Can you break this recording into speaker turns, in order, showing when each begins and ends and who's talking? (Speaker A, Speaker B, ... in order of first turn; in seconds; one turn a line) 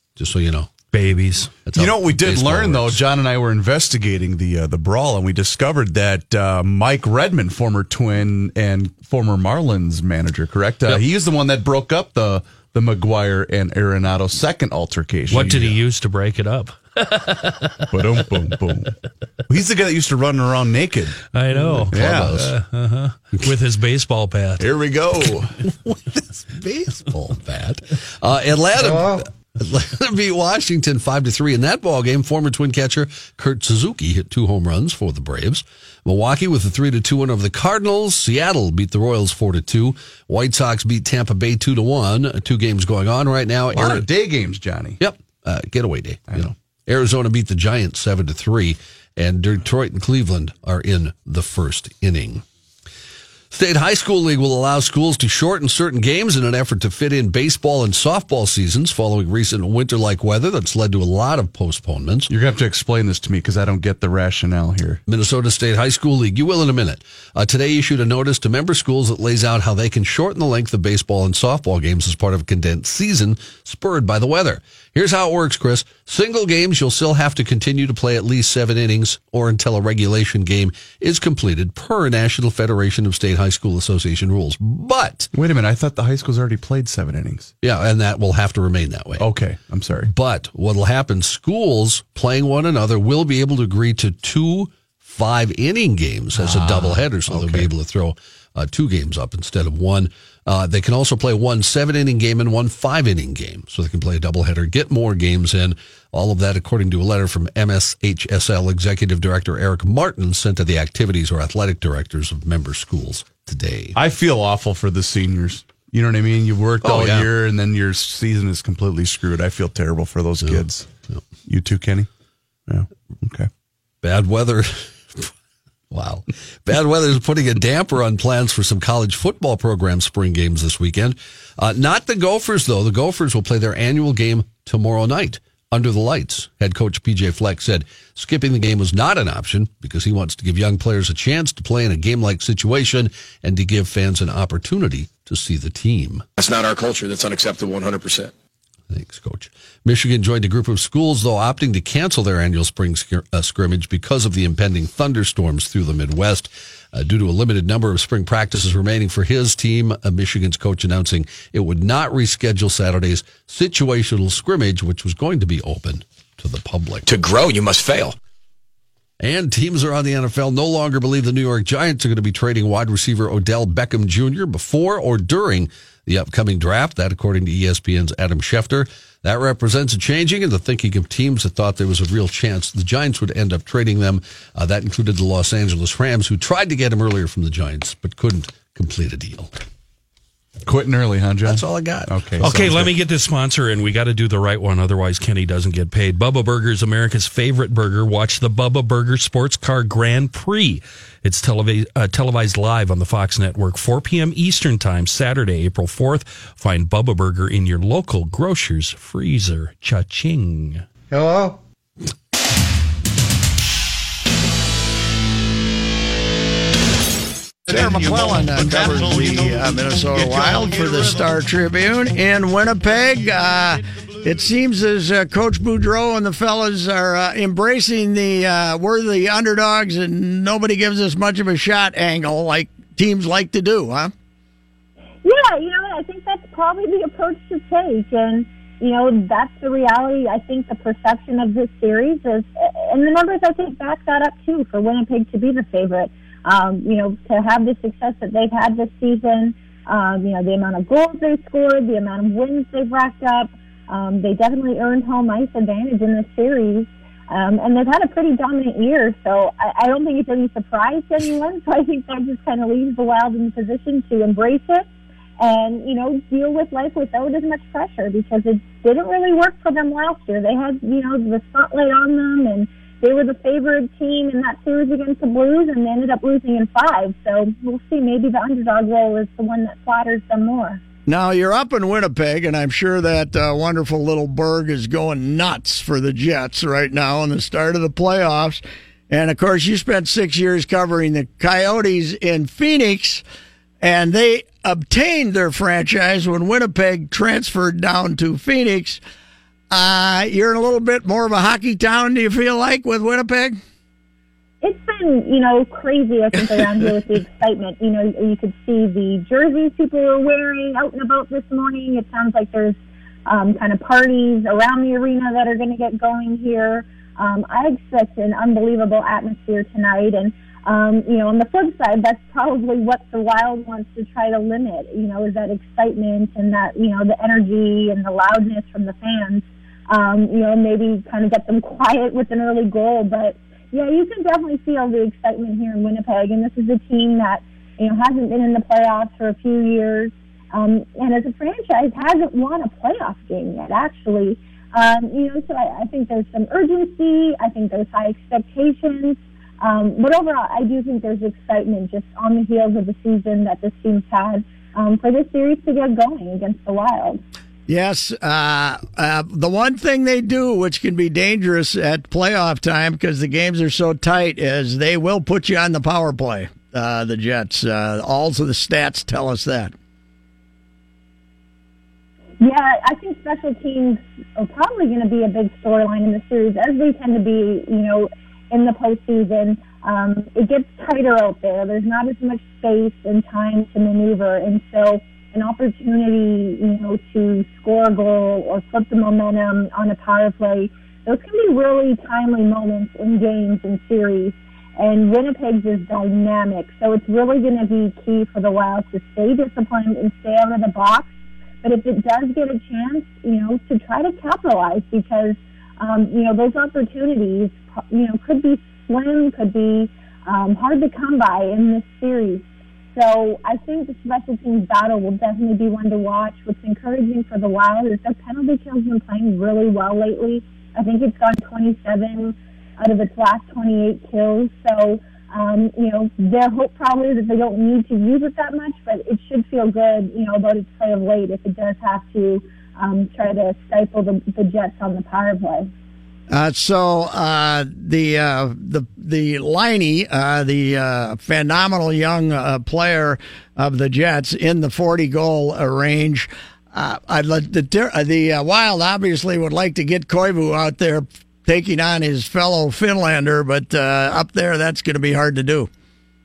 Speaker A: 0.1-0.8
Speaker B: 0.9-1.6
Speaker A: 1.6-3.0
Speaker C: 1.7-15.8
Speaker B: 15.3-18.3
Speaker C: 17.9-18.9
Speaker C: 19.5-21.2
Speaker B: 21.3-24.7
Speaker C: 21.9-22.4
Speaker A: 21.9-22.5
Speaker A: 25.6-44.1
Speaker C: 43.7-45.0
Speaker A: 45.0-52.4
Speaker A: 53.5-62.3
Speaker C: 62.3-65.0
Speaker A: 65.1-85.3
Speaker C: 85.3-87.5
Speaker A: 87.6-89.2
Speaker C: 89.2-90.1
Speaker A: 90.0-114.0
Speaker C: 96.3-97.7
Speaker C: 113.9-120.9
Speaker A: 116.8-117.3
Speaker A: 120.4-121.2
Speaker C: 121.4-122.1
Speaker C: 122.7-123.5
Speaker A: 124.0-125.3
Speaker A: 125.9-146.2
Speaker D: 146.4-148.3
Speaker A: 148.9-167.0
Speaker D: 167.0-168.2
Speaker A: 169.2-189.5
Speaker C: 190.7-192.9
Speaker A: 191.4-192.1
Speaker B: 192.4-210.8
Speaker E: 211.1-211.5
Speaker E: 217.7-234.1
Speaker F: 235.2-264.9
Speaker F: 265.4-280.8
Speaker E: 281.1-293.2
Speaker E: 293.8-299.0
Speaker E: 299.7-303.6
Speaker F: 304.6-357.2
Speaker E: 357.7-369.7
Speaker F: 372.4-401.1
Speaker F: 401.6-435.7
Speaker E: 436.3-455.7